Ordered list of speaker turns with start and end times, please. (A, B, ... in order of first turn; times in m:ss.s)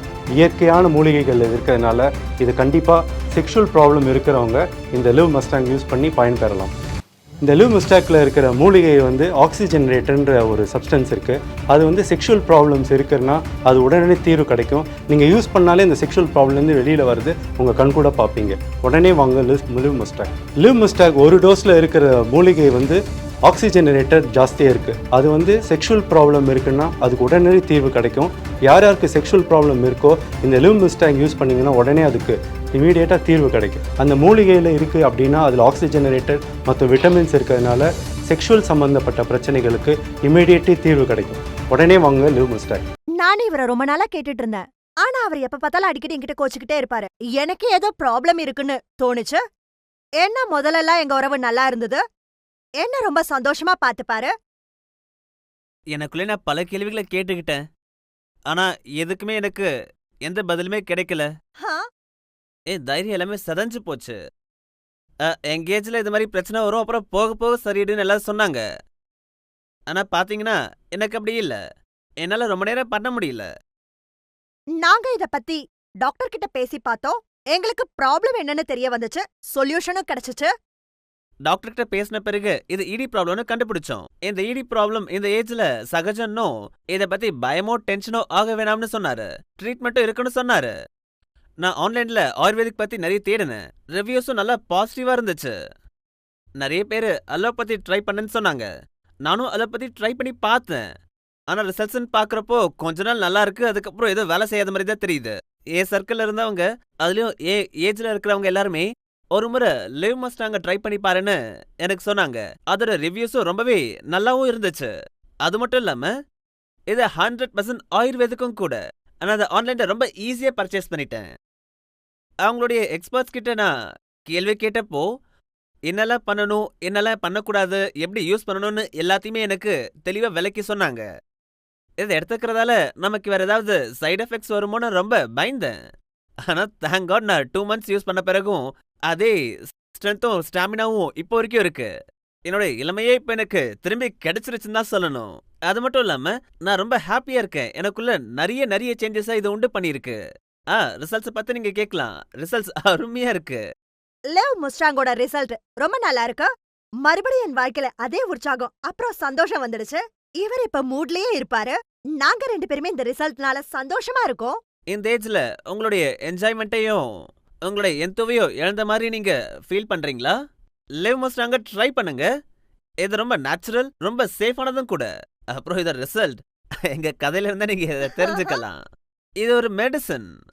0:00.4-0:06.7 A
0:07.4-0:42.8 A
0:43.2-0:49.4 B
0:50.2-0:52.0 B
0:52.8-0:54.3 B
0:55.9-0:57.6 C
0:58.5-0:59.7 C
1:00.2-1:01.3 C
1:02.7-1:04.2 C
1:05.3-1:08.6 C
1:09.9-1:11.6 C
1:12.2-1:13.5 C
1:14.8-1:20.5 B
1:21.4-1:30.7 C
1:31.6-1:35.5 C
1:36.6-1:38.7 C
1:39.2-1:40.8 C
1:41.5-1:54.9 C
1:55.4-1:56.1 C
1:56.9-2:01.3 C
2:02.4-2:03.7 C
2:04.3-2:05.0 C
2:05.9-2:11.0 C
2:12.0-2:15.7 C
2:16.5-2:19.4 C
2:19.9-2:21.9 C
2:22.5-2:30.2 C
2:30.7-2:33.6 C
2:34.3-2:36.5 B
2:37.0-2:44.5 B
2:44.9-2:47.0 C
2:47.6-2:50.3 C
2:51.0-2:52.3 C
2:53.0-2:56.4 C
2:56.9-2:58.8 C
2:58.2-2:58.6 B
2:59.4-3:00.3 C